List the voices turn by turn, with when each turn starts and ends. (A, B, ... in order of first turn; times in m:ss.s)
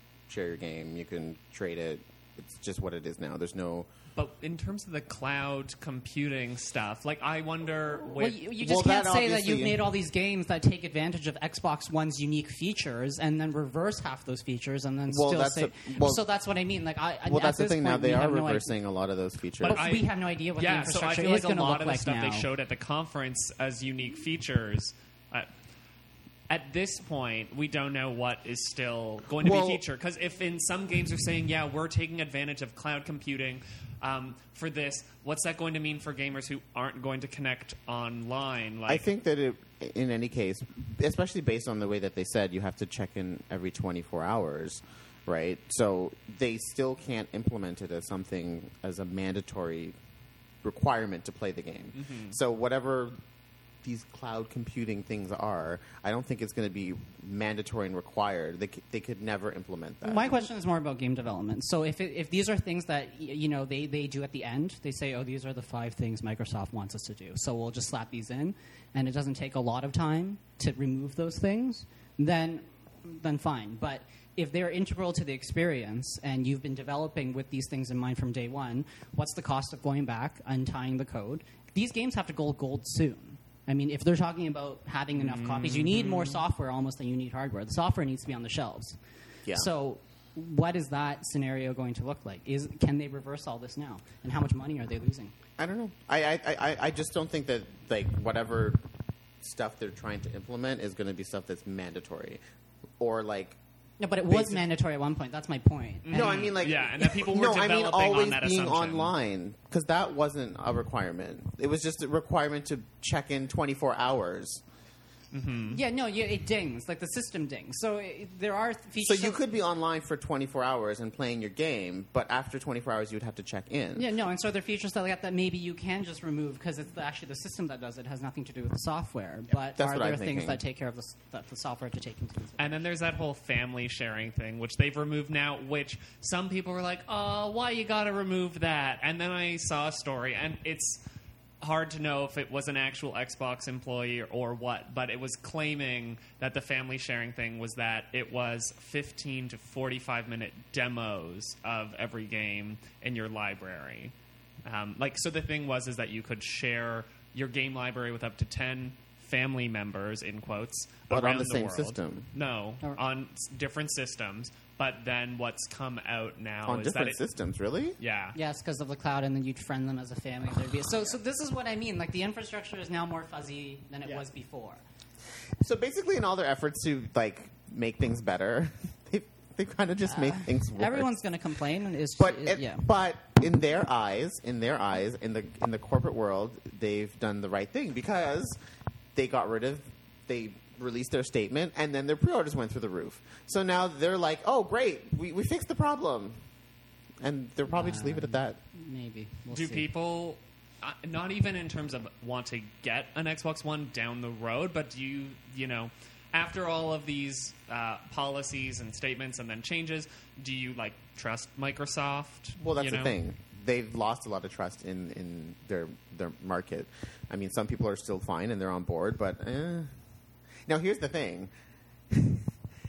0:00.3-0:03.9 A
0:04.1-0:08.4 B
0:08.1-0:18.7 C
0:08.6-0:09.8 A
0:15.1-0:16.2 A
0:17.2-0:19.8 A
0:19.6-0:25.5 B
0:19.6-0:22.5 C
0:26.5-0:39.0 B
0:29.4-0:29.8 A
0:38.9-0:49.9 A
0:50.6-0:53.2 A
0:52.0-0:52.4 B
0:53.8-1:00.4 A
1:00.0-1:29.0 C
1:25.2-1:26.4 B
1:29.5-1:35.3 C
1:35.6-1:38.8 A
1:39.4-1:42.4 A
1:43.0-1:43.6 A
1:44.0-1:46.5 C
1:44.3-1:44.6 A
1:46.0-1:49.1 B
1:46.1-1:54.6 A
1:55.3-1:55.8 B
1:55.7-1:59.4 C
1:59.0-2:04.1 A
2:03.9-2:12.8 C
2:09.7-2:10.6 A
2:12.6-2:21.0 B
2:21.6-2:34.1 B
2:34.6-2:47.2 B
2:41.1-2:42.3 A
2:46.7-2:48.0 A
2:48.0-2:48.4 B
2:48.3-2:54.8 C
2:55.6-3:01.1 A
3:00.1-3:02.9 C
3:02.2-3:08.6 A
3:09.1-3:16.4 A
3:17.2-3:18.6 A
3:17.7-3:19.9 C
3:19.5-3:33.2 B
3:32.6-3:39.9 A
3:40.6-3:41.5 A
3:42.1-3:42.5 A